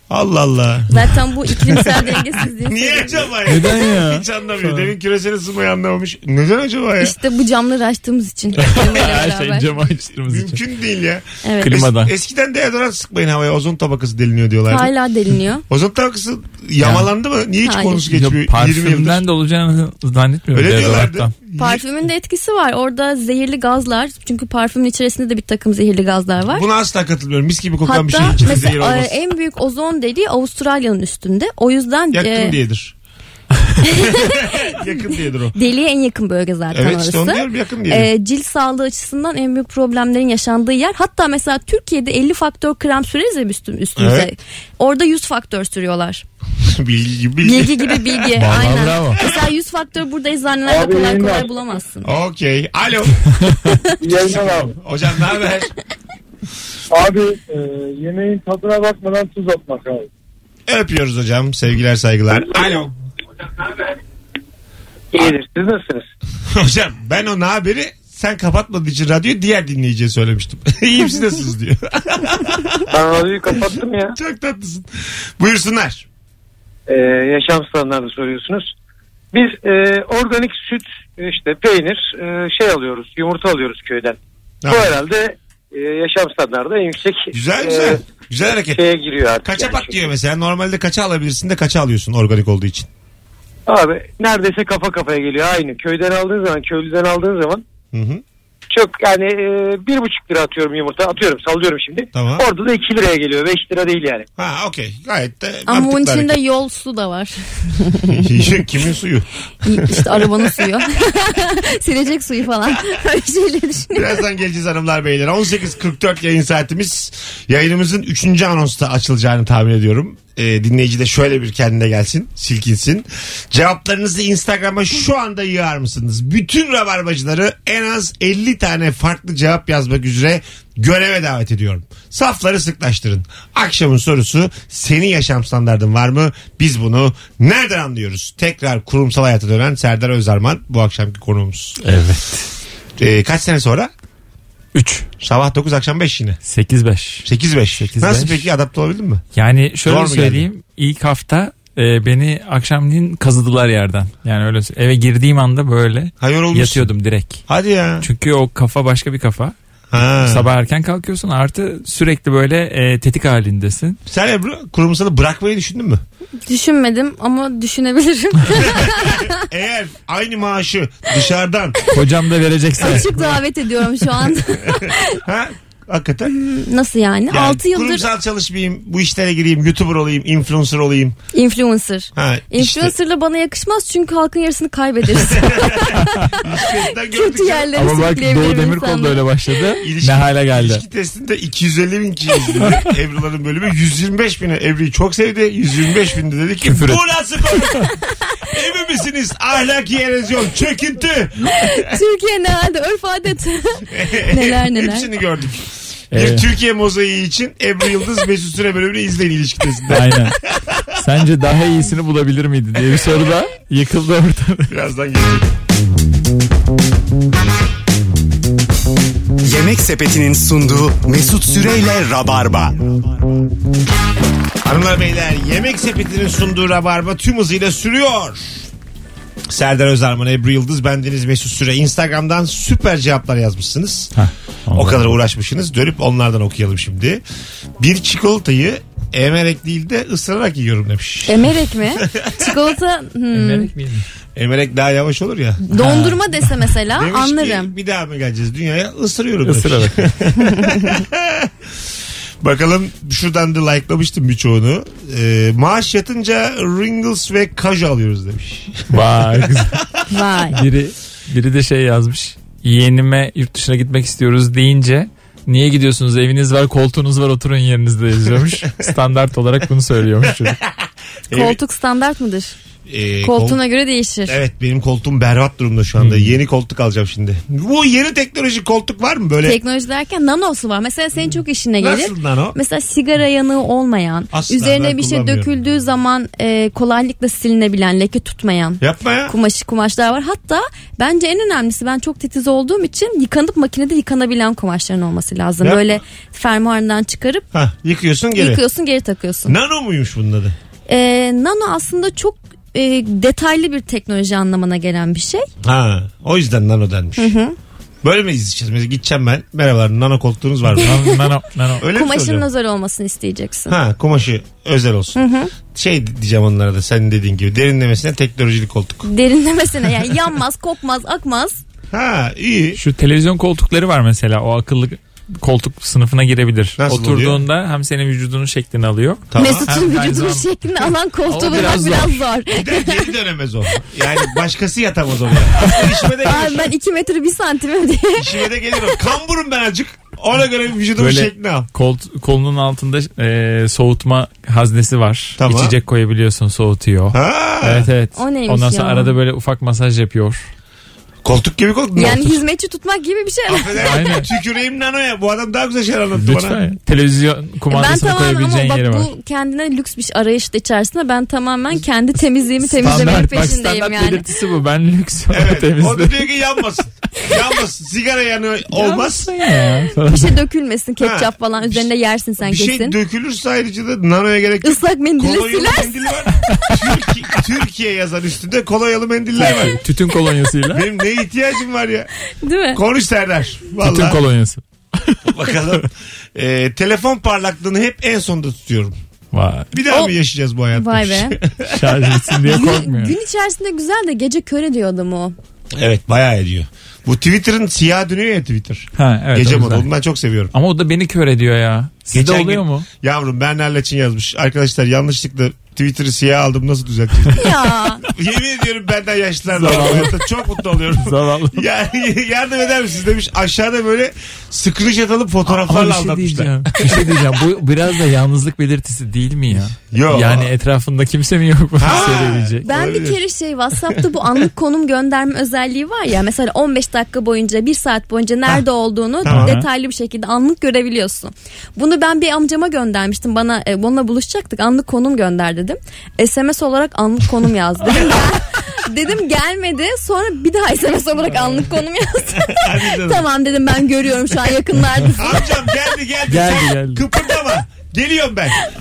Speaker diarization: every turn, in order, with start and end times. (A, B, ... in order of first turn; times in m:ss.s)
0:00.1-0:01.0 A
0:00.9-0:03.3 B
0:01.6-0:01.9 A
0:02.6-0:07.2 A
0:03.5-0:04.9 C
0:07.0-0:09.7 B
0:08.6-0:10.6 C
0:10.1-0:14.9 A
0:11.4-0:11.7 B
0:11.6-0:12.1 C
0:14.7-0:15.6 B
0:15.7-0:19.2 A
0:16.8-0:17.1 C
0:17.6-0:18.0 B
0:18.1-0:21.3 C
0:20.5-0:21.8 A
0:21.6-0:26.6 B
0:26.5-0:29.1 A
0:27.8-0:32.6 B
0:32.1-0:32.9 A
0:33.8-0:34.9 B
0:34.0-0:35.5 A
0:35.5-0:46.2 B
0:36.7-0:38.1 A
0:44.0-0:44.3 A
0:46.6-0:48.3 A
0:47.4-0:52.1 B
0:48.4-0:49.2 C
0:50.6-0:51.5 D
0:52.0-0:53.2 A
0:54.0-0:54.8 D
0:54.6-0:55.7 A
0:56.9-1:00.1 D
1:00.7-1:02.9 A
1:05.1-1:06.0 E
1:06.5-1:12.8 A
1:12.9-1:14.2 E
1:14.1-1:16.0 A
1:16.9-1:18.7 E
1:19.3-1:24.2 E
1:24.6-1:25.0 A
1:24.7-1:28.0 E
1:27.3-1:28.8 A
1:28.7-1:30.0 E
1:29.4-1:32.9 A
1:33.7-1:37.6 E
1:37.9-1:38.2 A
1:38.7-1:44.3 E
1:42.1-1:42.5 A
1:44.4-1:46.4 A
1:45.7-1:48.2 B
1:48.1-1:50.7 A
1:49.6-1:54.0 B
1:53.9-2:21.8 A
2:21.8-2:22.5 C
2:23.0-2:23.9 A
2:24.7-2:25.1 C
2:25.2-2:26.4 A
2:26.4-2:27.3 C
2:27.2-2:29.2 A
2:27.8-2:28.5 C
2:29.3-2:37.4 C
2:29.8-2:30.5 A
2:36.2-2:36.9 A
2:37.5-2:38.0 A
2:38.0-2:44.0 C
2:39.9-2:40.5 A
2:44.1-2:46.0 A
2:46.4-2:49.3 B
2:48.5-2:51.8 A
2:51.9-2:53.1 C
2:52.8-2:55.2 B
2:52.8-2:53.3 A
2:54.7-2:56.3 A
2:56.3-2:58.0 B
2:57.3-3:01.2 A
3:01.3-3:09.3 B
3:02.1-3:02.9 A
3:05.2-3:07.8 A
3:07.7-3:10.8 C
3:09.8-3:17.9 A
3:16.6-3:17.0 C
3:18.4-3:21.9 A
3:21.5-3:25.1 B
3:23.9-3:30.9 A
3:26.1-3:26.5 C
3:29.9-3:30.4 C
3:31.0-3:34.7 C
3:34.7-3:35.5 A
3:39.4-3:43.0 F
3:44.6-3:48.7 A
3:49.5-3:54.1 A
3:54.2-3:55.1 C
3:54.7-3:57.2 A
3:57.8-4:01.4 A
4:01.2-4:03.7 B
4:02.0-4:02.7 A
4:03.3-4:04.0 C
4:04.3-4:05.6 A
4:05.6-4:07.7 B
4:05.7-4:06.2 C
4:06.9-4:11.5 A
4:09.4-4:10.1 C
4:10.5-4:10.8 B
4:12.4-4:19.8 A
4:18.9-4:19.8 C
4:20.1-4:20.6 B
4:20.5-4:30.6 C
4:30.4-4:30.7 A
4:31.3-4:31.6 A
4:31.3-4:32.5 B
4:32.9-4:33.6 A
4:33.2-4:34.4 B
4:34.3-4:39.6 A
4:36.0-4:36.3 C
4:39.4-4:57.4 B
4:41.8-4:42.6 A
4:44.3-4:45.5 A
4:48.8-4:49.3 A
4:55.6-4:56.0 A
4:57.5-4:58.6 A
4:58.3-4:59.5 B
4:59.4-5:00.5 A
5:00.9-5:05.5 B
5:05.6-5:07.3 A
5:07.2-5:07.5 B
5:08.0-5:11.0 A
5:10.8-5:11.8 C
5:11.8-5:12.5 A
5:11.9-5:13.8 B
5:13.7-5:15.2 A
5:15.1-5:15.5 B
5:15.7-5:19.1 A
5:19.0-5:21.6 B
5:21.9-5:22.8 A
5:22.7-5:32.2 C
5:26.8-5:27.4 A
5:29.3-5:29.7 A
5:29.4-5:33.1 B
5:32.5-5:36.7 A
5:36.2-5:39.0 B
5:38.2-5:41.7 A
5:41.0-5:50.5 C
5:45.4-5:45.8 A
5:47.1-5:47.9 A
5:48.1-5:49.1 B
5:51.2-5:52.4 A
5:52.0-5:53.8 B
5:53.5-5:56.6 A
5:53.8-5:54.3 C
5:56.2-5:59.1 C
5:57.7-6:04.3 B
6:02.6-6:06.2 C
6:05.3-6:09.3 A
6:08.8-6:10.4 C
6:09.6-6:12.9 B
6:11.0-6:11.9 A
6:12.4-6:19.8 A
6:14.6-6:16.0 B
6:19.4-6:20.8 C
6:20.7-6:22.1 A
6:22.4-6:22.8 B
6:22.7-6:24.2 A
6:23.8-6:25.6 C
6:25.3-6:28.9 A
6:29.3-6:29.7 C
6:29.7-6:32.3 A
6:30.7-6:31.4 B
6:31.7-6:33.2 C
6:32.4-6:35.3 B
6:35.8-6:40.5 A
6:39.0-6:39.8 C
6:40.5-6:42.8 C
6:42.1-6:57.0 A
6:47.3-6:48.0 B
6:49.5-6:50.2 C
6:50.9-6:51.6 C
6:55.5-7:02.6 C
6:59.8-7:00.5 A
7:01.8-7:03.2 A
7:02.6-7:25.4 B
7:09.2-7:09.5 A
7:09.3-7:09.6 C
7:22.3-7:23.2 A
7:25.2-7:28.6 A
7:26.3-7:27.0 C